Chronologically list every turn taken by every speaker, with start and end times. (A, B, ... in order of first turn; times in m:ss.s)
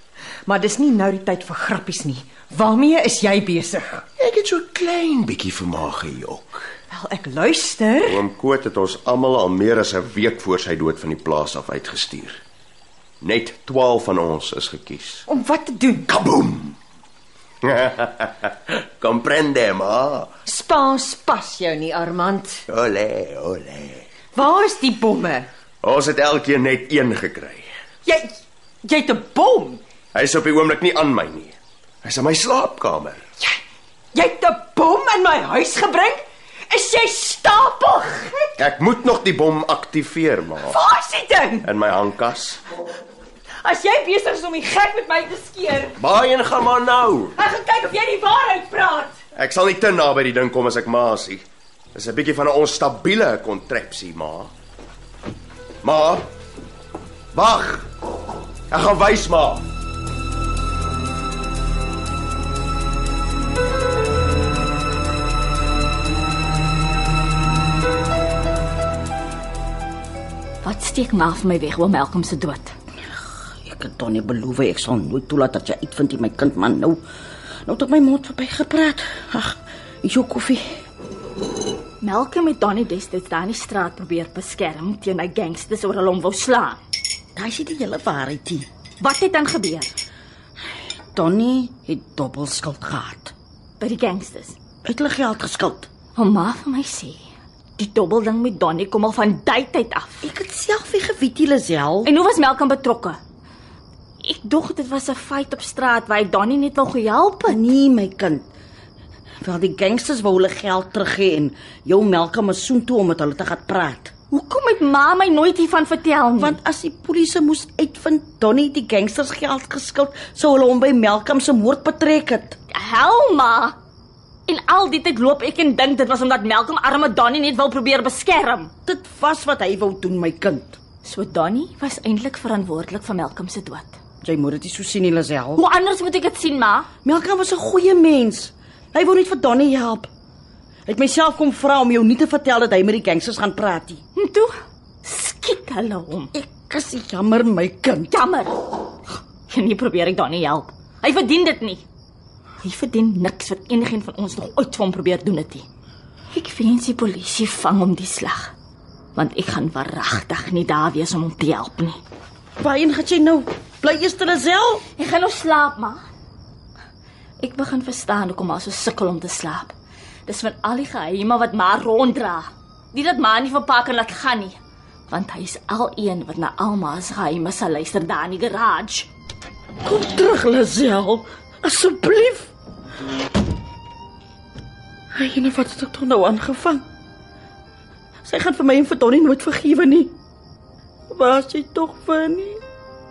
0:00.4-0:04.0 A
0:04.2-0:06.7 B
0:06.9-0:08.2 A
0:08.0-0:12.4 B
0:13.2-0:15.3 B
0:15.3-0:16.1 A
0:16.1-0:16.8 B
0:17.6-0:20.3 B
0:20.4-0:22.6 A
0:22.7-0:24.1 B
0:24.3-0:25.5 A
0:25.8-0:27.7 B
0:28.0-0:28.3 A
0:28.8-0:29.8 A
0:30.1-0:33.2 B
0:34.1-0:38.6 A
0:38.6-0:40.8 B
0:40.6-0:41.7 A
0:41.6-0:42.6 B
0:43.6-0:46.0 A
0:46.0-0:47.4 B
0:47.4-0:49.2 A
0:49.3-0:54.5 B
0:55.8-0:56.2 B
0:57.3-0:57.9 B
0:58.7-0:59.6 B
1:10.6-1:12.7 C
1:13.6-1:17.0 D
1:17.6-1:20.6 D
1:22.0-1:26.8 C
1:27.4-1:28.6 D
1:29.0-1:29.9 C
1:31.1-1:33.3 D
1:33.8-1:34.6 C
1:34.8-1:35.9 D
1:36.1-1:37.2 C
1:37.8-1:40.3 C
1:40.2-1:42.1 D
1:42.0-1:43.2 C
1:44.2-1:47.6 C
1:47.5-1:48.4 D
1:49.4-1:54.1 D
1:54.3-1:56.6 C
1:56.4-2:02.6 D
2:02.7-2:03.8 C
2:04.5-2:08.7 C
2:08.8-2:10.8 D
2:11.0-2:13.9 C
2:14.2-2:15.6 D
2:15.6-2:16.9 C
2:17.0-2:20.1 D
2:20.9-2:24.0 D
2:24.2-2:24.5 C
2:25.0-2:26.3 C
2:26.3-2:28.2 D
2:28.1-2:28.7 C
2:29.5-2:31.8 C
2:32.6-2:35.6 C
2:36.3-2:38.5 C
2:39.2-2:42.0 C
2:42.6-2:44.8 D
2:45.0-2:46.0 C
2:47.4-2:49.7 C
2:50.2-2:54.6 C
2:55.1-2:59.1 C
2:59.8-3:02.5 D
3:05.1-3:06.8 D
3:08.2-3:10.1 D
3:11.1-3:12.6 D